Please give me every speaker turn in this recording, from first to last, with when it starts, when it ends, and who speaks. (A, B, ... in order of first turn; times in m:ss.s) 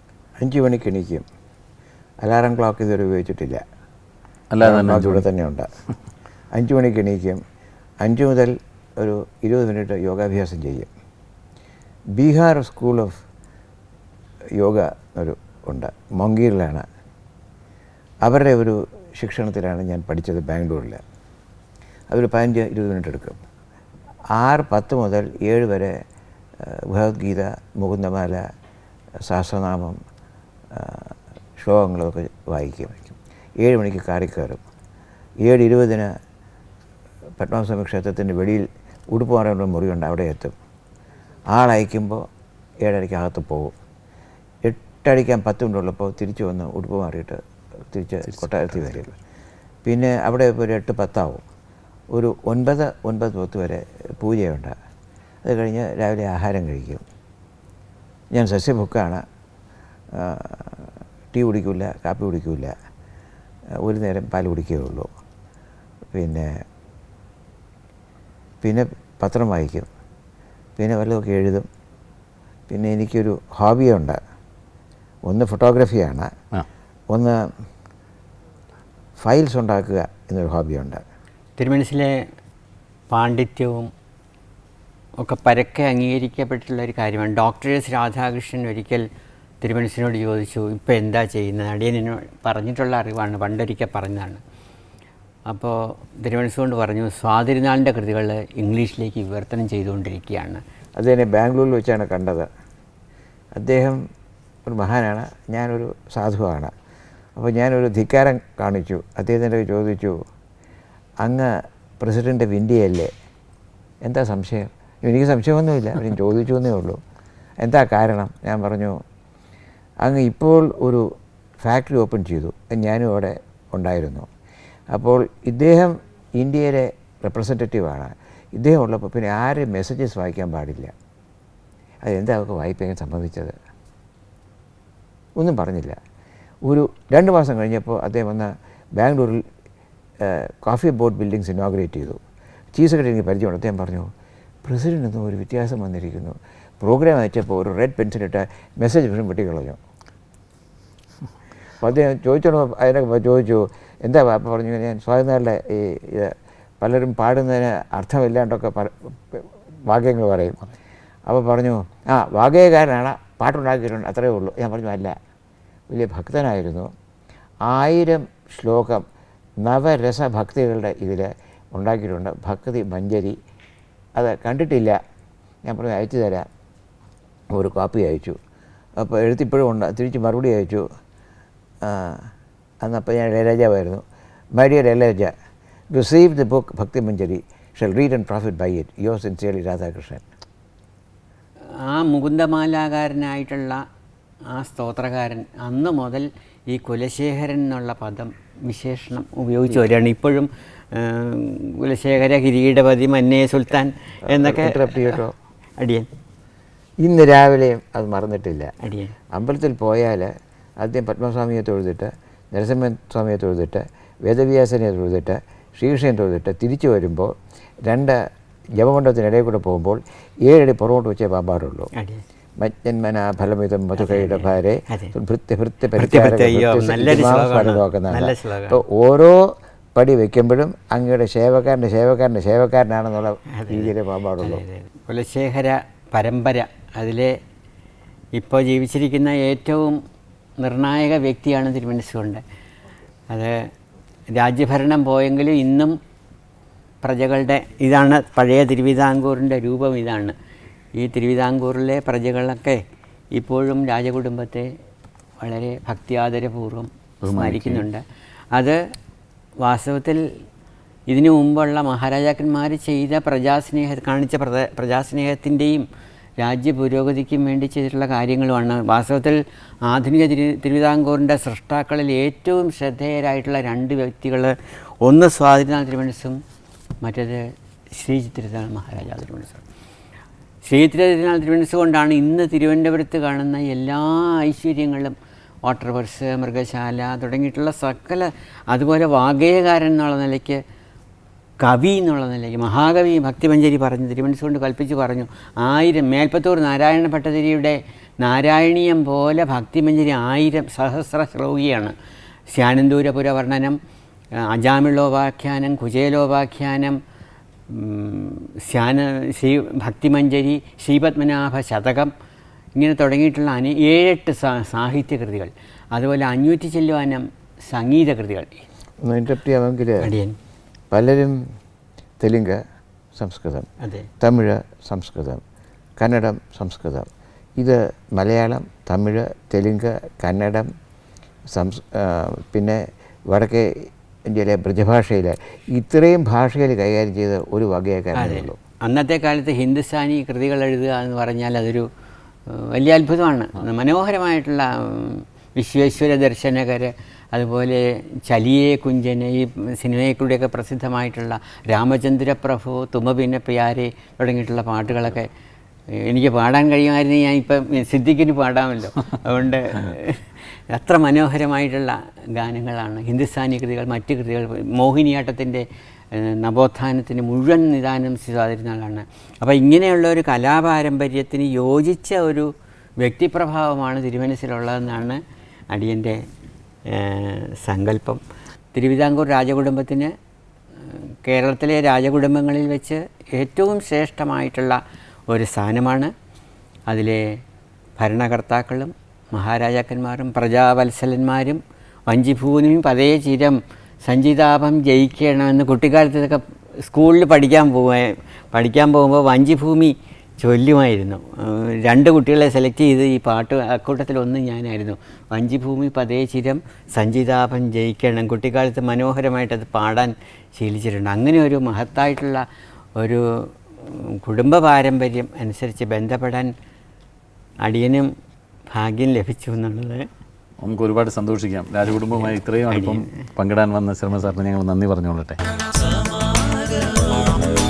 0:00.4-0:01.2 A
0:02.2-0:03.6 A
0:04.5-0:05.2 B
0:04.6-0:05.7 A
0:06.5-0:07.4 A
0:08.0-0:10.9 A
0:12.1-0:13.1 A
0:14.6-0:16.8 A
0:18.2-0:21.0 A
0:22.1-0:23.4 A
0:24.3-0:26.0 A
0:26.6-0:28.4 A
0:29.3-0:30.0 A
0:30.7-0:34.6 A
0:35.4-0:36.1 A
0:37.4-0:40.5 A
0:41.5-0:42.2 A
0:42.8-0:43.7 A
0:44.6-0:47.4 A
0:47.9-0:49.1 A
0:48.4-0:48.8 B
0:49.8-0:51.4 A
0:52.1-0:54.7 A
0:55.4-0:57.0 A
0:58.3-0:59.2 A
1:00.1-1:02.7 A
1:03.8-1:05.1 A
1:06.1-1:06.6 A
1:08.6-1:09.9 A
1:10.8-1:11.6 A
1:12.7-1:14.2 A
1:15.2-1:16.3 A
1:17.1-1:17.4 A
1:19.2-1:21.0 A
1:21.6-1:22.2 C
1:23.1-1:23.9 C
1:25.2-1:29.0 C
1:29.6-1:34.4 C
1:35.5-1:40.6 C
1:41.0-1:42.5 A
1:43.6-1:44.0 A
1:44.6-1:46.7 A
1:47.4-1:50.2 A
1:51.2-1:53.1 A
1:54.0-1:57.0 A
1:57.6-1:59.0 A
2:00.0-2:01.0 A
2:01.6-2:04.2 A
2:04.9-2:10.9 A
2:12.0-2:13.5 A
2:15.4-2:16.0 A
2:16.6-2:19.4 A
2:20.2-2:22.2 A
2:22.7-2:24.1 A
2:24.6-2:29.8 A
2:31.8-2:40.6 A
2:41.3-2:45.1 A
2:45.9-2:46.9 A
2:47.6-2:49.0 A
2:49.6-2:53.4 A
2:54.2-2:55.0 A
2:55.6-2:56.5 A
2:57.5-2:58.4 A
2:59.0-3:00.8 A
3:01.8-3:02.3 A
3:02.8-3:04.0 A
3:04.5-3:05.3 A
3:05.9-3:10.2 A
3:11.8-3:13.8 C
3:14.5-3:25.2 C
3:24.3-3:25.3 A
3:25.8-3:26.1 C
3:27.0-3:28.7 A
3:28.8-3:29.1 C
3:29.3-3:37.3 A
3:37.8-3:38.2 A
3:38.8-3:41.9 A
3:42.0-3:42.2 C
3:42.6-3:54.6 A
3:44.0-3:45.1 C
3:46.0-3:48.8 C
3:53.6-3:57.4 C
3:58.4-4:00.0 C
4:00.6-4:02.4 C
4:03.3-4:03.6 C
4:04.3-4:06.0 C
4:07.0-4:10.3 C
4:11.0-4:12.8 C
4:13.3-4:14.7 C
4:15.4-4:18.0 C
4:17.2-4:17.8 B
4:19.6-4:20.2 C
4:21.1-4:25.8 C
4:26.4-4:36.4 C
4:37.0-4:39.6 C
4:40.6-4:45.2 C
4:45.7-4:50.6 C
4:51.6-5:01.9 C
5:02.5-5:03.8 C
5:04.5-5:07.0 C
5:07.7-5:12.1 C
5:12.8-5:18.6 C
5:19.0-5:20.1 A
5:20.0-5:20.4 C
5:20.9-5:21.4 A
5:22.2-5:22.6 A
5:23.1-5:23.7 A
5:24.2-5:25.4 A
5:26.0-5:27.1 A
5:27.6-5:30.7 A
5:31.5-5:38.6 A
5:38.2-5:41.8 C
5:42.5-5:55.3 C
5:56.0-6:12.5 C
6:13.0-6:15.2 C
6:15.7-6:16.2 C
6:16.9-6:18.2 C
6:18.7-6:20.1 C
6:20.8-6:24.8 C
6:25.3-6:26.1 C
6:26.9-6:27.4 C
6:28.0-6:52.4 C
6:53.0-6:56.5 C
6:57.6-6:58.1 C
6:58.7-7:00.1 C
7:00.6-7:05.4 B
7:02.7-7:03.0 C